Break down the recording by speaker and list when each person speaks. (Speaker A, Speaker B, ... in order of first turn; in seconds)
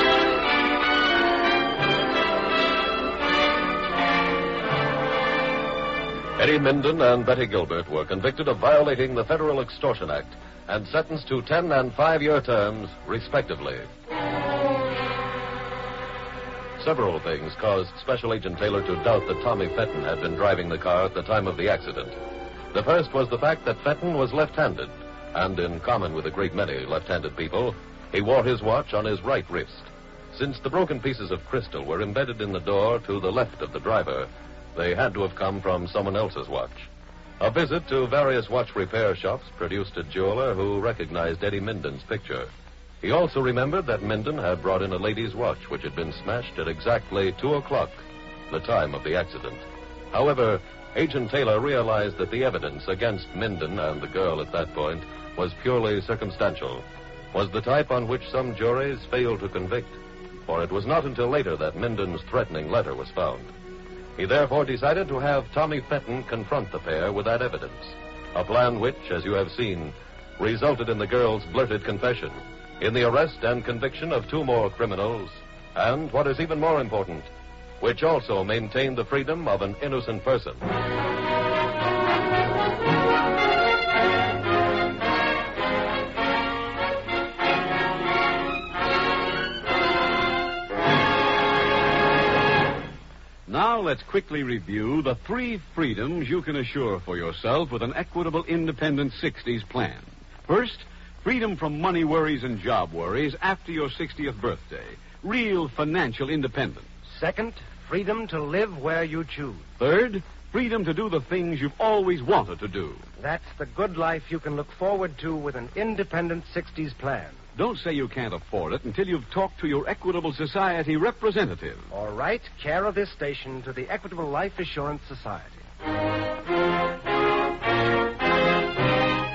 Speaker A: 6.4-13.9, 16.8-22.1, 22.7-36.9, 37.4-42.5, 43.0-63.5, 64.2-77.3, 77.8-80.6
Speaker B: 93.5-106.9, 109.8-113.0, 117.6-121.9
Speaker C: 107.0-109.7, 113.2-117.4, 121.9-125.6